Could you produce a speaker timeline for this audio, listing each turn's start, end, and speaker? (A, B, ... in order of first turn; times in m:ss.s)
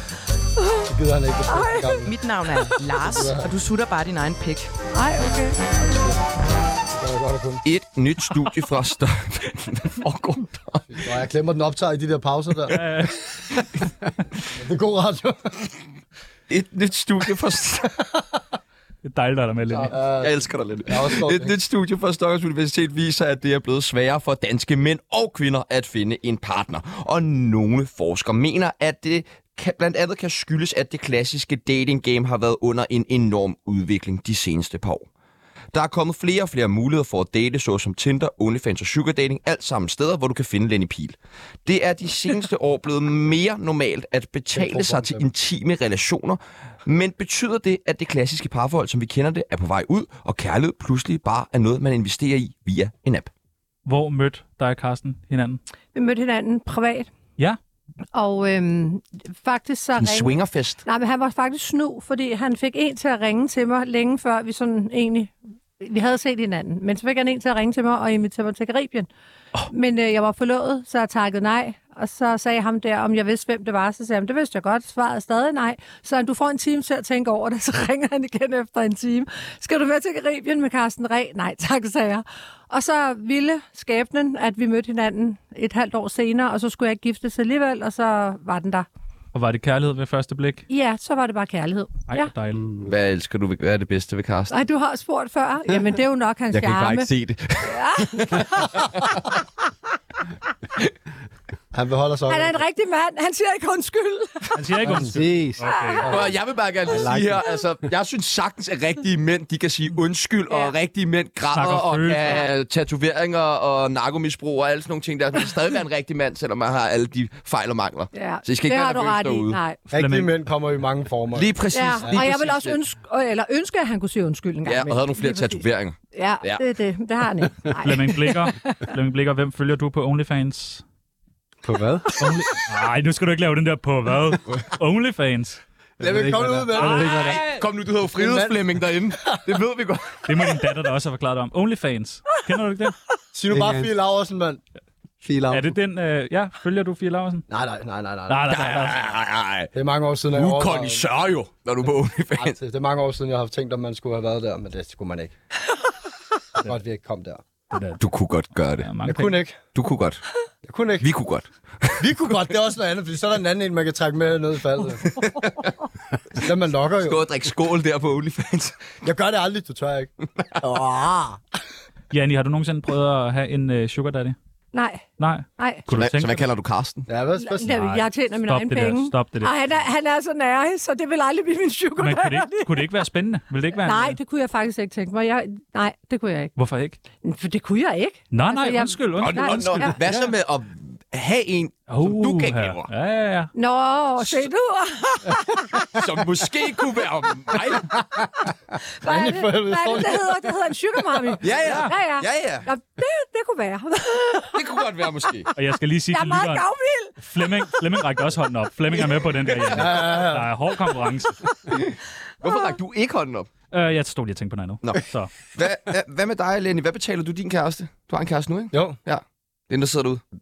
0:00.6-0:00.9 A
0:00.9-0:02.1 B
0:01.5-0:02.0 A
0:02.0-0:04.7 C
0:02.7-0:03.5 B
0:04.9-0:05.6 A
0:05.9-0:06.1 B
0:06.9-0:07.6 B
0:07.6-0:10.5 D
0:10.8-0:12.8 B
0:12.7-0:13.3 E
0:14.5-0:15.7 B
0:16.5-0:17.9 D
0:19.0-0:19.9 E
0:19.7-0:21.5 B
0:20.2-0:35.1 D
0:35.7-0:53.3 D
0:44.5-0:45.2 B
0:53.8-0:55.6 E
0:55.9-0:57.1 A
0:58.1-1:09.1 A
1:00.0-1:00.8 D
1:09.7-1:28.9 A
1:29.3-1:30.6 E
1:30.7-1:32.3 A
1:32.1-1:32.6 E
1:32.8-1:34.6 D
1:34.5-1:37.1 A
1:36.5-1:39.2 D
1:37.6-1:39.3 A
1:41.7-1:42.6 B
1:42.3-1:44.6 A
1:44.5-1:46.2 E
1:44.8-1:45.1 B
1:44.8-1:45.6 F
1:45.6-1:46.1 A
1:46.1-1:59.6 D
1:46.9-1:47.4 F
1:50.5-1:50.7 A
1:51.5-1:52.4 E
1:58.1-1:59.8 A
1:59.9-2:02.2 B
1:59.9-2:00.3 E
2:01.3-2:02.8 D
2:01.7-2:08.8 A
2:04.6-2:06.6 D
2:07.8-2:10.8 E
2:11.6-2:12.2 F
2:12.2-2:15.6 E
2:16.0-2:17.4 B
2:16.0-2:17.4 F
2:16.7-2:17.6 E
2:17.3-2:20.2 D
2:18.1-2:19.4 B
2:20.2-2:23.0 E
2:23.3-2:24.6 B
2:23.5-2:23.9 F
2:25.2-2:25.7 F
2:25.5-2:27.4 E
2:27.5-2:28.5 B
2:28.3-2:29.0 E
2:28.5-2:29.7 D
2:29.7-2:31.0 B
2:30.3-2:32.6 D
2:32.4-2:35.3 B
2:36.6-2:37.4 B
2:37.7-2:38.0 E
2:38.0-2:38.9 D
2:38.8-2:39.4 E
2:39.0-2:39.6 B
2:39.7-2:40.2 D
2:40.6-2:41.1 B
2:41.0-2:42.0 D
2:42.0-2:45.2 B
2:45.2-2:45.7 D
2:46.3-2:47.3 B
2:47.0-2:48.9 D
2:49.0-2:51.4 B
2:52.1-2:54.4 E
2:54.7-2:55.0 A
2:55.2-2:56.4 E
2:55.6-2:55.8 A
2:55.9-2:57.0 D
2:57.1-2:57.8 B
2:57.4-3:02.8 A
2:57.7-2:59.5 E
3:02.0-3:04.2 E
3:03.8-3:06.5 A
3:06.6-3:07.0 E
3:07.2-3:10.0 A
3:08.3-3:09.9 E
3:09.2-3:12.9 D
3:11.9-3:13.5 E
3:13.5-3:15.9 A
3:15.8-3:18.0 D
3:19.0-3:24.6 A
3:19.0-3:20.5 B
3:21.4-3:22.7 D
3:21.6-3:21.9 E
3:24.5-3:25.5 D
3:25.5-3:26.6 E
3:26.1-3:27.2 A
3:27.2-3:31.4 E
3:29.7-3:30.5 B
3:31.7-3:33.5 D
3:33.7-3:35.3 E
3:34.8-3:40.2 D
3:38.7-3:39.0 B